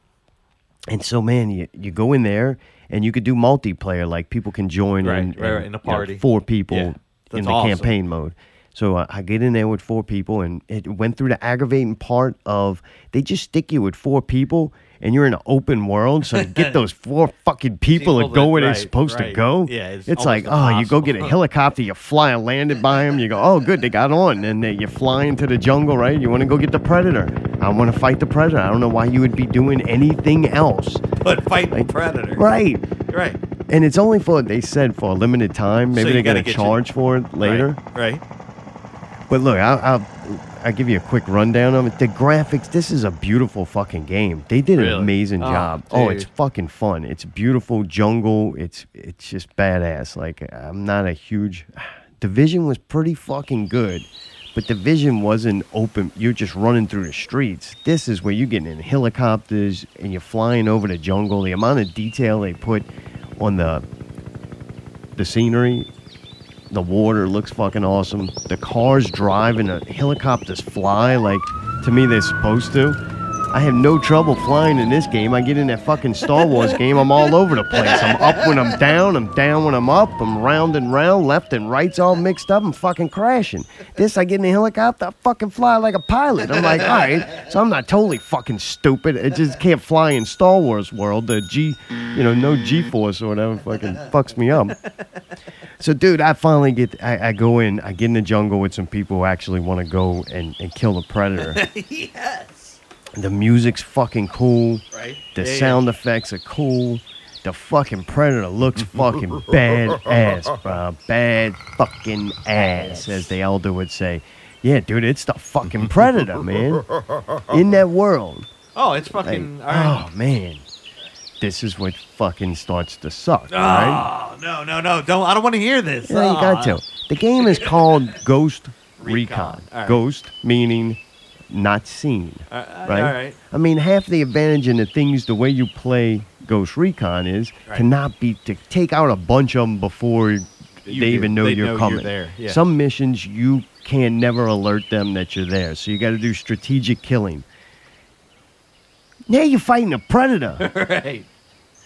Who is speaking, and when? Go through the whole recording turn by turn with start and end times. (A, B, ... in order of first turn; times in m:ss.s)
0:00.9-0:31.0 A
0:05.0-0:07.9 B
0:16.3-0:16.8 B
0:17.9-0:21.4 B
0:31.2-0:32.4 B
0:31.7-0:32.8 A
0:33.1-0:33.4 B
0:33.7-0:37.8 A
0:35.9-0:36.8 B
0:37.4-0:38.2 B
0:39.3-1:03.8 A
0:44.8-0:46.3 B
1:05.1-1:05.9 A
1:06.7-1:13.0 A
1:13.5-1:34.8 A
1:17.8-1:18.7 B
1:35.8-1:41.6 A
1:41.4-1:42.8 B
1:43.1-1:56.9 A
1:44.9-1:45.8 B
1:52.5-1:53.3 B
1:57.5-1:58.5 A
1:58.7-2:00.0 B
1:59.2-2:00.6 A
2:01.4-2:04.0 A
2:03.5-2:06.8 B
2:06.1-2:11.0 A
2:07.4-2:08.1 B
2:09.0-2:10.0 B
2:11.5-2:27.4 A
2:12.5-2:13.4 B
2:20.9-2:22.6 B
2:29.3-2:30.6 A
2:30.6-2:31.2 B